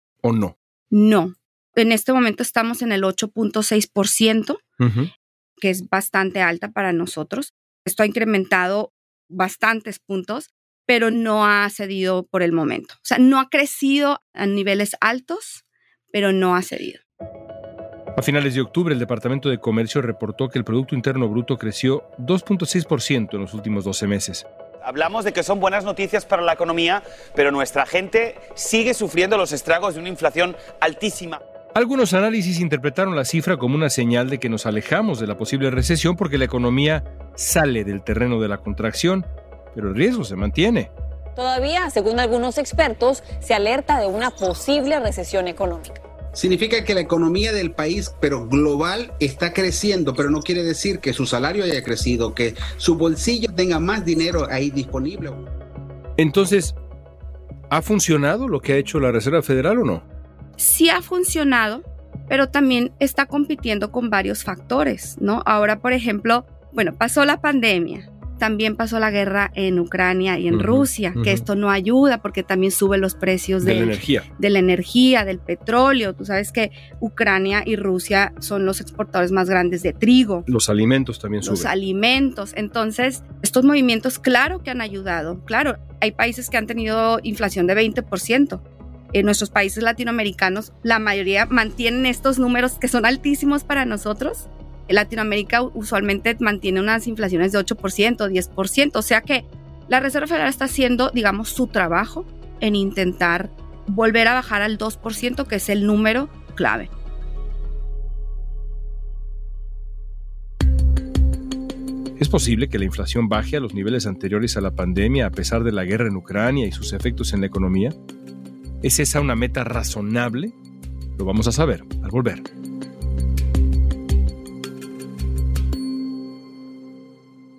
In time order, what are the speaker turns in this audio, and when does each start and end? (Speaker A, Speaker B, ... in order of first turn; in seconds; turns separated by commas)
Speaker A: 0.2-0.6, Speaker B: 0.9-4.6, Speaker A: 4.8-5.1, Speaker B: 5.6-15.6, Speaker B: 16.1-17.0, Speaker A: 18.2-24.4, Speaker C: 24.8-31.4, Speaker A: 31.8-40.9, Speaker D: 41.4-46.0, Speaker E: 46.4-55.4, Speaker A: 56.2-56.8, Speaker A: 57.7-60.0, Speaker B: 60.6-80.5, Speaker A: 70.5-71.5, Speaker A: 73.6-74.3, Speaker A: 80.5-81.7, Speaker B: 81.4-106.9, Speaker A: 112.2-118.0, Speaker A: 118.8-120.5, Speaker A: 121.2-122.4